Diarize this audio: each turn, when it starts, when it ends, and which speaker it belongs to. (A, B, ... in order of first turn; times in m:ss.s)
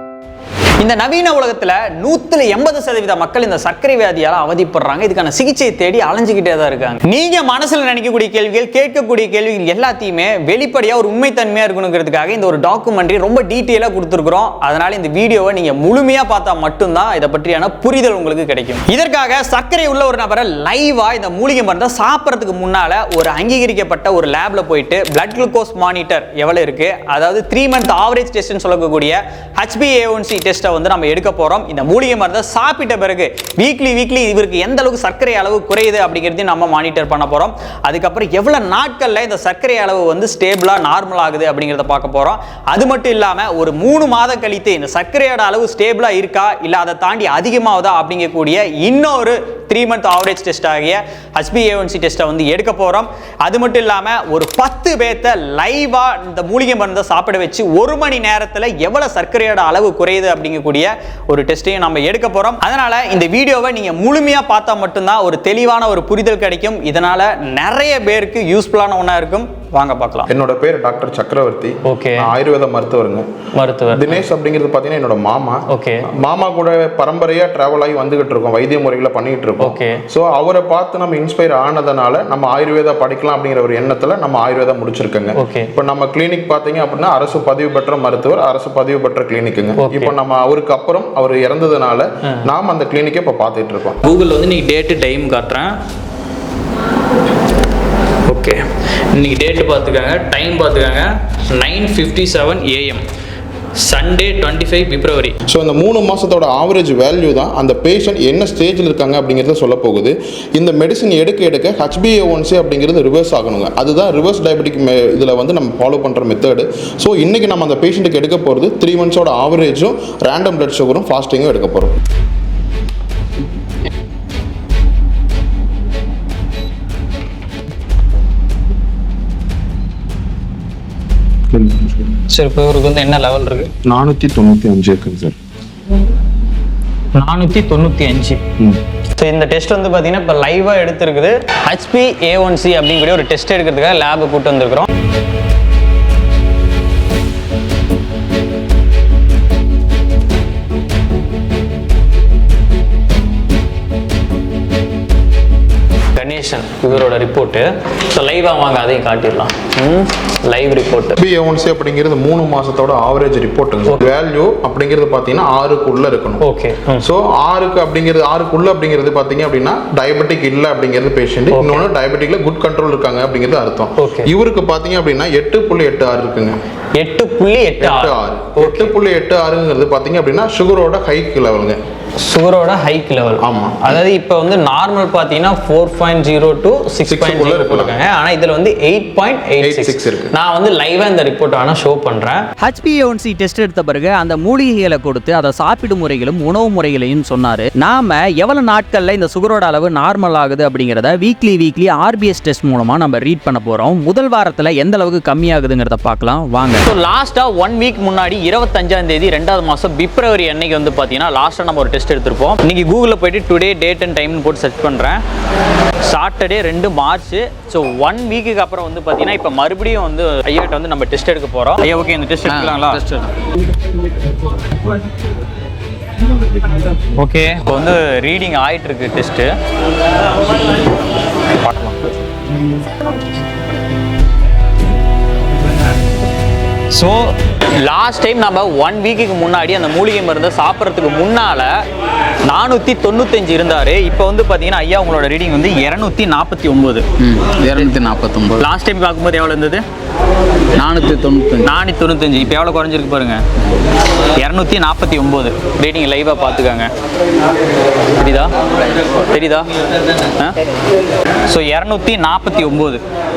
0:00.8-1:10.3 A
1:10.3-1:13.3 B
1:11.8-1:12.3 A
1:13.5-1:14.2 A
1:13.9-1:34.0 B
1:15.7-1:16.1 A
1:19.6-1:20.0 A
1:25.4-1:25.7 A
1:29.8-1:30.1 A
1:34.0-1:35.7 A
1:38.3-1:43.0 A
1:43.8-1:45.4 A
1:45.5-2:02.0 B
2:11.5-2:12.2 B
2:12.3-2:13.7 A
2:13.8-2:15.4 B
2:17.2-2:18.4 A
2:19.2-2:24.9 A
2:36.2-2:41.2 A
2:41.2-2:46.4 B
2:46.4-2:47.1 A
2:47.0-2:56.6 B
2:51.5-2:51.9 A
2:54.0-2:54.3 A
2:57.0-2:58.9 A
2:57.8-3:01.8 B
3:02.2-3:12.4 A
3:03.4-3:04.0 B
3:07.1-3:08.0 B
3:09.6-3:10.3 B
3:12.6-3:26.8 C
3:26.7-3:35.2 A
3:36.0-3:43.0 A
3:42.5-3:43.3 D
3:47.2-3:49.5 A
3:51.5-3:52.1 A
3:56.9-4:01.7 A
4:02.4-4:07.1 A
4:07.2-4:08.7 D
4:08.6-4:09.8 A
4:10.8-4:11.7 D
4:11.6-4:13.4 A
4:14.4-4:16.9 A
4:18.2-4:18.5 A
4:19.2-4:19.7 A
4:21.5-4:23.0 A